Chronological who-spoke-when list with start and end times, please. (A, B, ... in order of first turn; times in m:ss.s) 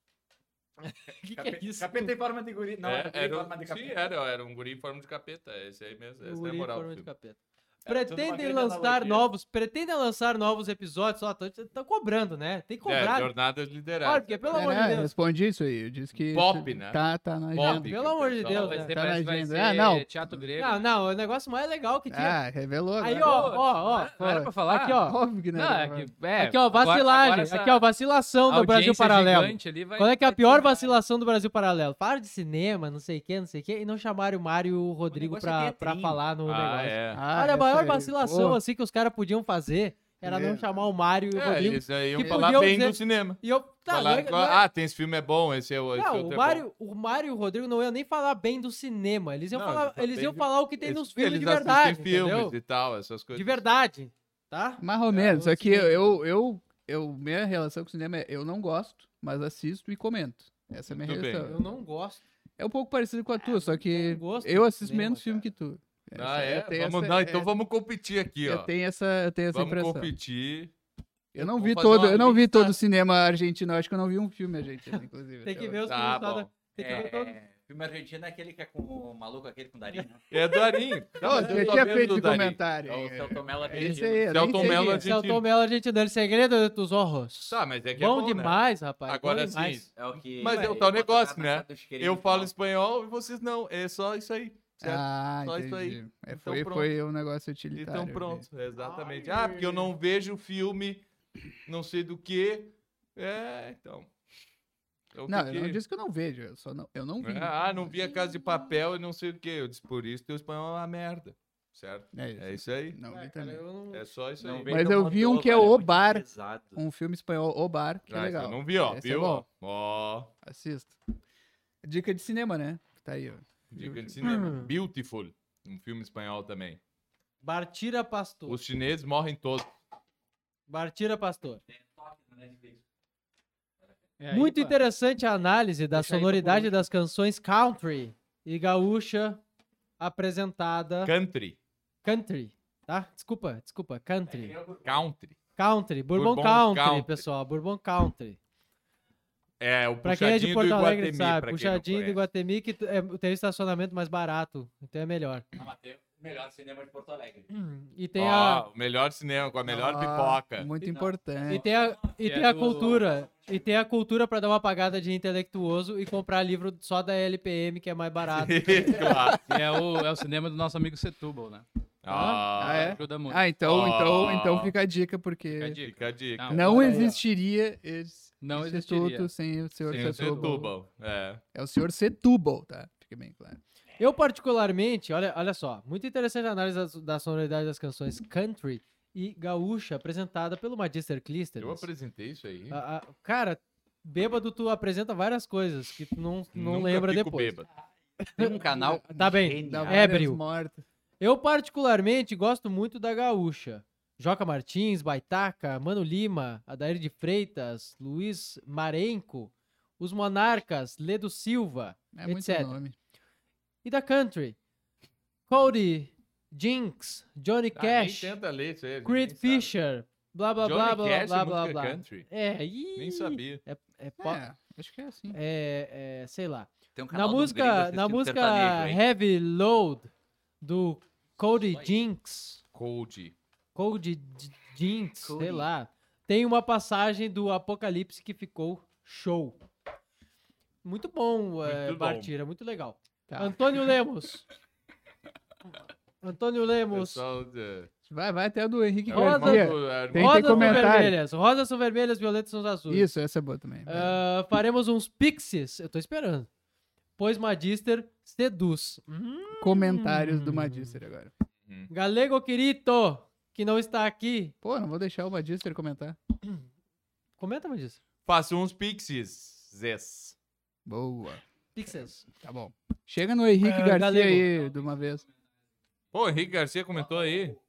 0:00.8-0:02.1 A
0:01.3-0:04.1 B
0:02.8-0:07.1 C
0:06.2-0:13.3 A
0:07.8-0:09.3 B
0:12.8-0:14.9 C
0:14.0-0:15.1 A
0:14.5-0:17.9 D
0:16.2-0:18.9 C
0:17.6-0:18.9 A
0:18.4-0:20.9 E
0:18.9-0:20.5 D
0:20.6-0:22.4 A
0:22.1-0:23.5 D
0:23.0-0:24.1 A
0:23.2-0:25.0 E
0:24.2-0:26.1 D
0:24.6-0:25.2 A
0:25.5-0:27.8 E
0:26.4-0:44.6 A
0:28.5-0:31.0 E
0:35.1-0:36.2 B
0:36.4-0:37.2 C
0:37.1-0:38.6 D
0:40.2-0:40.7 D
0:41.3-0:46.6 C
0:42.2-0:42.5 D
0:46.0-0:52.6 A
0:49.5-0:53.6 C
0:53.3-0:56.2 A
0:54.8-1:01.6 D
1:00.9-1:01.5 C
1:01.4-1:02.2 A
1:02.6-1:07.5 D
1:03.4-1:05.5 A
1:06.2-1:08.7 C
1:08.4-1:10.1 D
1:09.5-1:10.7 C
1:11.3-1:15.8 D
1:11.4-1:12.8 C
1:15.4-1:17.4 A
1:15.9-1:16.5 C
1:16.8-1:20.2 B
1:20.3-1:22.6 C
1:21.2-1:25.1 D
1:21.5-1:22.1 B
1:22.8-1:24.6 B
1:23.7-1:25.4 C
1:24.6-1:29.9 A
1:27.5-1:36.9 C
1:30.0-1:32.5 B
1:34.8-1:38.4 D
1:37.8-1:41.1 C
1:38.8-1:39.9 A
1:41.7-1:44.1 C
1:45.1-1:45.8 C
1:45.3-1:48.1 D
1:47.2-1:53.0 C
1:52.1-1:53.6 D
1:53.1-1:54.1 A
1:53.9-1:54.9 C
1:54.4-1:56.8 B
1:54.7-1:59.4 D
1:58.1-2:00.3 C
2:00.4-2:01.0 D
2:01.8-2:04.6 D
2:03.7-2:06.8 C
2:04.2-2:04.7 A
2:07.4-2:08.6 A
2:08.5-2:09.7 C
2:10.7-2:11.6 A
2:11.7-2:12.8 B
2:14.2-2:14.8 E
2:14.3-2:19.4 A
2:15.9-2:16.8 E
2:20.0-2:21.1 A
2:21.0-2:21.6 C
2:22.0-2:24.6 A
2:24.3-2:25.0 B
2:24.8-2:25.4 C
2:25.6-2:28.4 A
2:26.1-2:27.2 C
2:29.6-2:32.2 C
2:30.0-2:35.4 A
2:35.5-2:37.5 B
2:37.5-2:38.7 A
2:38.2-2:40.7 C
2:39.7-2:41.7 D
2:40.8-2:49.2 A
2:41.5-2:41.8 B
2:42.2-2:43.0 E
2:48.3-2:49.8 C
2:49.4-2:51.6 E
2:52.0-2:53.0 C
2:52.1-2:52.4 A
2:52.6-2:53.5 E
2:52.6-2:55.8 D
2:53.6-2:54.7 C
2:55.5-2:57.1 E
2:55.8-2:56.7 C
2:56.5-3:00.7 D
2:56.7-2:57.2 A
2:58.4-2:59.3 E
2:59.8-3:00.6 E
2:59.9-3:01.4 C
3:01.5-3:03.6 D
3:04.0-3:11.9 A
3:11.6-3:12.8 C
3:12.7-3:17.6 A
3:16.5-3:17.7 C
3:18.2-3:20.4 A
3:18.4-3:20.1 B
3:18.7-3:19.0 D
3:19.6-3:20.8 D
3:21.2-3:32.8 A
3:32.1-3:33.0 D
3:33.8-3:34.6 A
3:35.5-3:38.4 A
3:37.8-3:39.7 C
3:39.0-3:44.4 A
3:40.6-3:42.3 C
3:43.0-3:43.6 C
3:44.2-3:45.4 D
3:45.3-3:52.6 A
3:47.0-3:49.0 B
3:51.7-3:52.0 B
3:52.7-3:53.4 C
3:53.8-3:59.6 A
3:55.2-3:55.7 B
4:00.8-4:04.5 A
4:01.6-4:02.3 C
4:03.3-4:03.6 D
4:06.2-4:07.2 A
4:06.9-4:07.9 C
4:08.1-4:11.2 D
4:09.1-4:11.0 C
4:09.1-4:13.1 A
4:12.9-4:14.2 D
4:13.9-4:16.5 A
4:17.2-4:21.0 A
4:19.6-4:21.3 D
4:21.9-4:24.5 A
4:24.6-4:26.2 D
4:27.4-4:28.0 A
4:28.3-4:30.4 C
4:30.9-4:31.4 D
4:31.8-4:32.2 A
4:32.2-4:35.2 D
4:33.6-4:34.5 A
4:36.1-4:37.6 C
4:37.0-4:37.4 B